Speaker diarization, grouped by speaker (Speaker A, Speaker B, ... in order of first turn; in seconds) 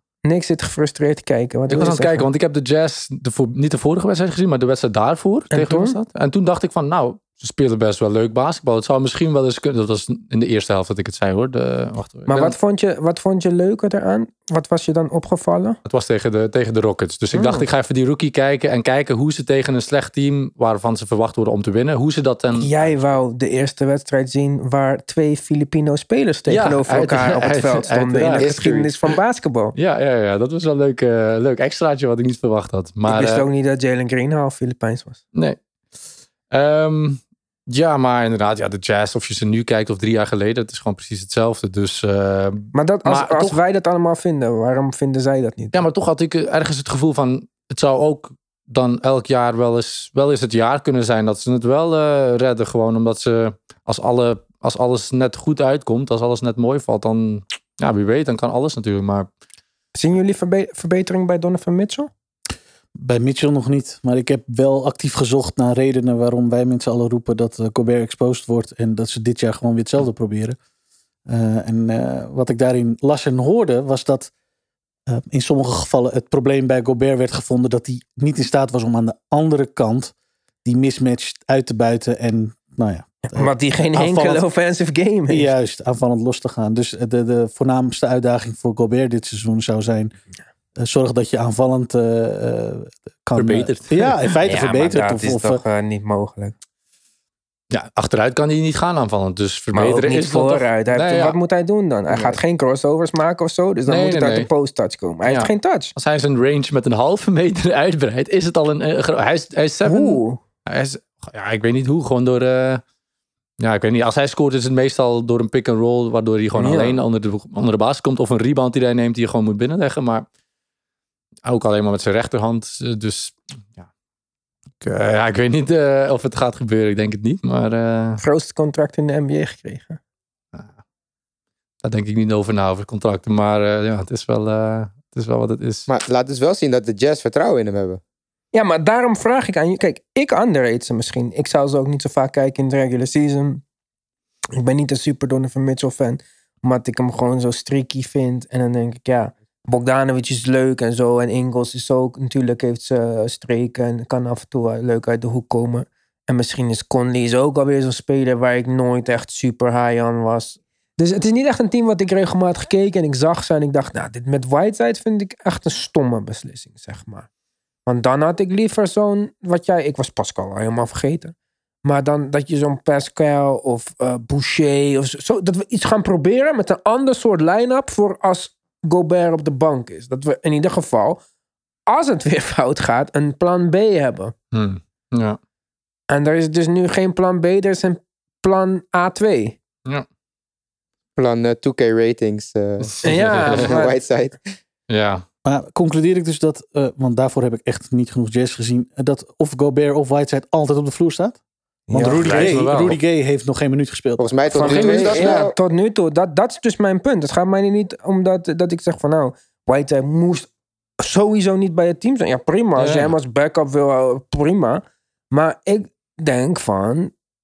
Speaker A: 0.2-2.3, 5.5-6.0, 12.3-15.8, 17.3-17.6, 22.5-29.7, 33.1-35.2, 42.7-45.8, 60.0-62.1, 83.2-85.5, 94.4-96.5, 99.7-105.9, 109.8-110.4, 116.5-117.0, 128.2-130.0, 138.5-143.6, 144.6-167.3, 167.8-181.2, 181.9-184.3, 186.1-189.6, 193.0-193.9, 201.9-202.6, 204.5-210.5, 211.0-217.1
Speaker B: 1.7-12.6, 15.8-23.0, 26.5-28.6, 29.7-33.4, 36.5-43.6, 45.7-59.3, 93.3-93.8, 97.7-101.4, 102.1-102.4, 103.9-104.5, 105.2-112.8, 113.6-120.2, 121.4-123.9, 124.8-128.2, 131.8-135.9, 184.5-185.4, 192.8-193.9, 194.9-195.2, 201.9-203.0, 204.6-205.3, 212.8-213.1
Speaker C: 28.4-28.9, 135.9-138.0, 191.2-194.4, 204.2-205.5
Speaker D: 63.0-70.6, 71.3-74.3, 75.1-84.4, 85.3-90.1, 90.8-95.6, 195.4-201.4, 201.9-204.4